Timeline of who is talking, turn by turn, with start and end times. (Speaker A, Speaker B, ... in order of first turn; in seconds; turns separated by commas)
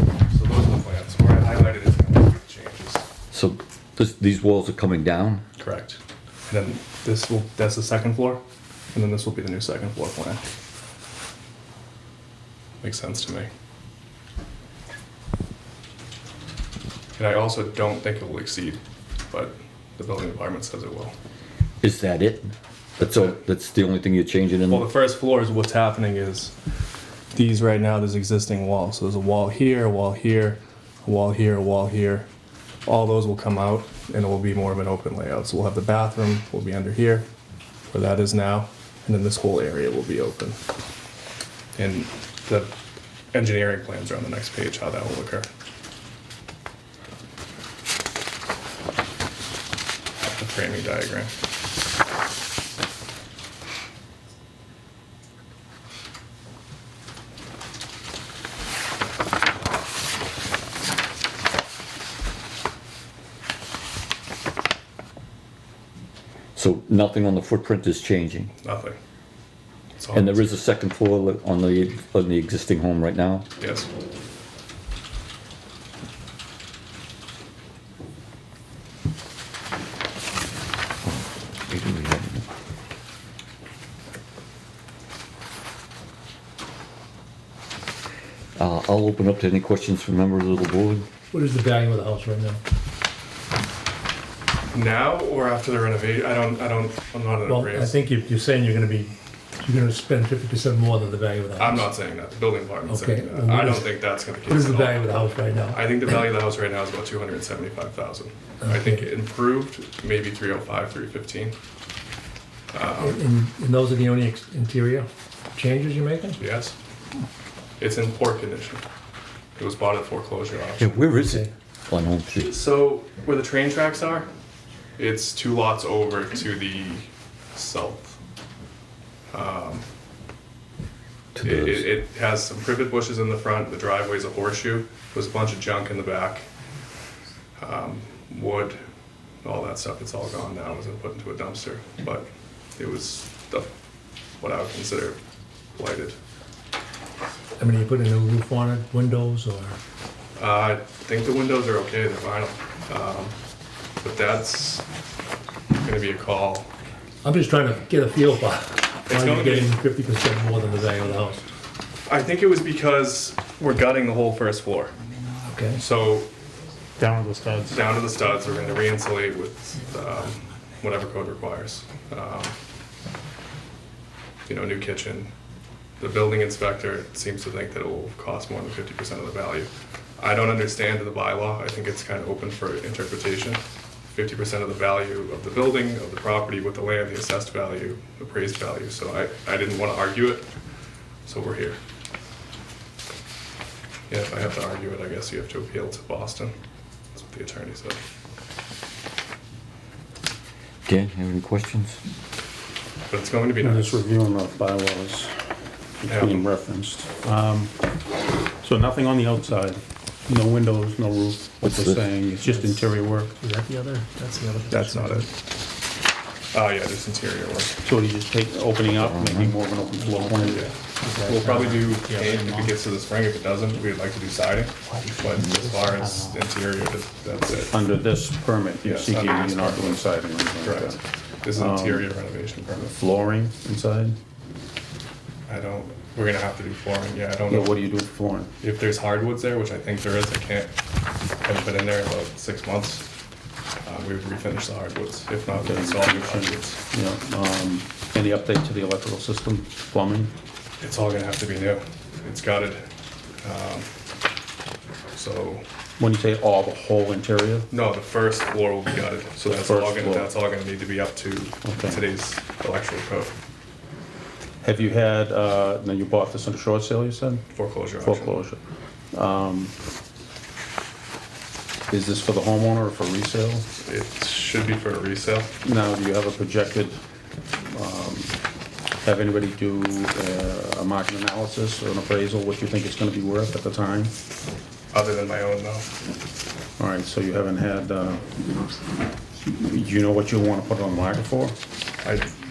Speaker A: 0.3-3.0, Speaker B: 3.3-5.4, Speaker A: 5.6-8.4, Speaker A: 8.9-10.4, Speaker A: 12.8-13.5, Speaker A: 17.1-18.8, Speaker A: 19.3-21.1, Speaker B: 21.8-24.9, Speaker A: 24.7-26.5, Speaker A: 27.3-32.3, Speaker A: 32.9-37.3, Speaker A: 37.9-40.6, Speaker A: 41.7-42.7, Speaker A: 43.3-45.5, Speaker A: 50.3-51.3, Speaker B: 66.5-68.5, Speaker A: 68.6-69.0, Speaker A: 70.0-70.5, Speaker B: 70.1-73.5, Speaker A: 73.6-73.9, Speaker B: 81.0-82.4, Speaker B: 88.6-91.1, Speaker C: 91.3-92.6, Speaker A: 94.7-97.9, Speaker C: 97.5-101.9, Speaker A: 101.6-111.5, Speaker C: 102.8-105.8, Speaker C: 108.6-109.0, Speaker A: 112.7-113.2, Speaker C: 113.0-116.4, Speaker A: 116.4-116.8, Speaker A: 117.8-118.8, Speaker A: 119.5-121.0, Speaker B: 120.8-122.5, Speaker C: 121.2-121.5, Speaker A: 122.4-124.3, Speaker A: 125.0-128.2, Speaker A: 129.3-129.8, Speaker B: 131.3-131.8, Speaker A: 131.4-136.4, Speaker A: 137.6-138.8, Speaker A: 139.4-143.7, Speaker A: 144.4-145.2, Speaker A: 145.7-146.2, Speaker C: 147.6-149.8, Speaker A: 150.3-153.3, Speaker A: 154.0-154.8, Speaker A: 155.7-156.7, Speaker C: 157.2-161.4, Speaker A: 159.1-159.7, Speaker A: 162.1-164.9, Speaker C: 165.5-165.8, Speaker A: 165.7-166.3, Speaker D: 167.0-167.8, Speaker A: 167.7-172.6, Speaker A: 174.4-175.3, Speaker A: 176.0-183.6, Speaker A: 184.1-190.5, Speaker A: 191.2-191.8, Speaker A: 194.1-196.5, Speaker A: 197.1-198.0, Speaker B: 200.9-202.0, Speaker A: 203.1-204.0, Speaker D: 203.6-207.7, Speaker A: 206.1-206.5, Speaker D: 208.6-213.3, Speaker B: 211.6-212.0, Speaker C: 212.4-212.8, Speaker C: 213.4-215.3, Speaker A: 214.7-215.3, Speaker A: 216.5-217.8, Speaker D: 217.8-220.7, Speaker B: 218.9-219.5, Speaker A: 220.0-227.8, Speaker C: 221.0-222.7, Speaker D: 227.6-231.0, Speaker A: 228.8-232.9, Speaker D: 231.5-232.1, Speaker D: 232.9-234.2, Speaker A: 235.5-237.7, Speaker D: 237.5-238.5, Speaker A: 238.6-240.7, Speaker A: 241.4-243.0, Speaker A: 243.8-246.8, Speaker D: 245.6-250.3, Speaker A: 250.8-252.8, Speaker A: 253.4-253.9, Speaker A: 255.1-255.6, Speaker D: 256.0-257.7, Speaker A: 257.7-263.4, Speaker D: 259.4-260.3, Speaker D: 261.6-262.0, Speaker D: 264.6-267.4, Speaker A: 267.5-268.4, Speaker D: 268.0-268.6, Speaker D: 269.1-269.7, Speaker D: 271.9-273.6, Speaker A: 273.8-275.5, Speaker D: 275.6-277.0, Speaker D: 277.6-278.3, Speaker D: 279.0-284.1, Speaker A: 284.9-285.9, Speaker D: 286.8-288.7, Speaker D: 289.4-291.6, Speaker A: 292.0-292.3